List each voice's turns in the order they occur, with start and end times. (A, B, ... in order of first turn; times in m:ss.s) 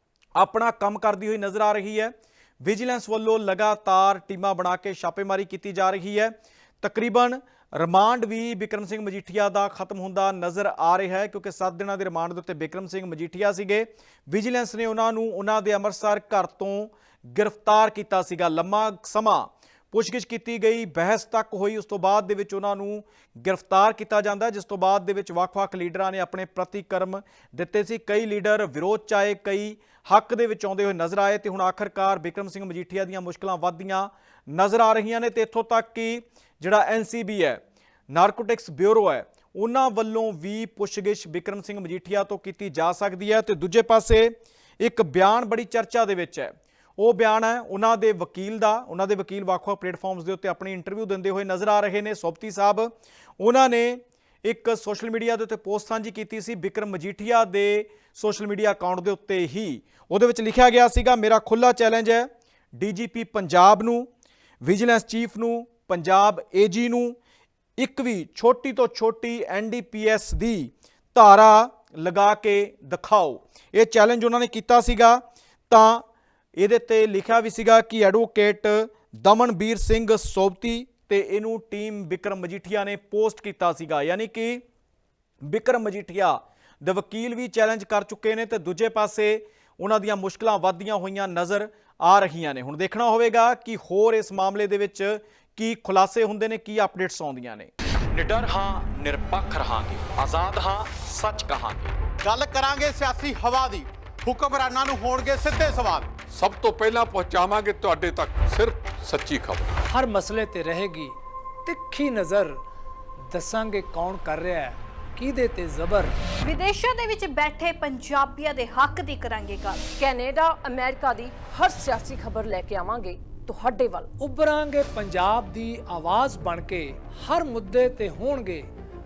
0:00.4-1:04.1 A
1:04.6-1:07.2 A
1:07.8-1:16.0 A
1:16.6-1:24.6 A
1:25.4-1:41.9 A
1:42.2-1:46.1 B
1:46.3-1:49.7 C
1:49.9-1:51.1 D
1:51.6-1:52.6 D
1:53.3-1:56.1 D
1:56.4-1:59.9 E
1:59.9-2:04.1 F
2:04.2-2:08.7 D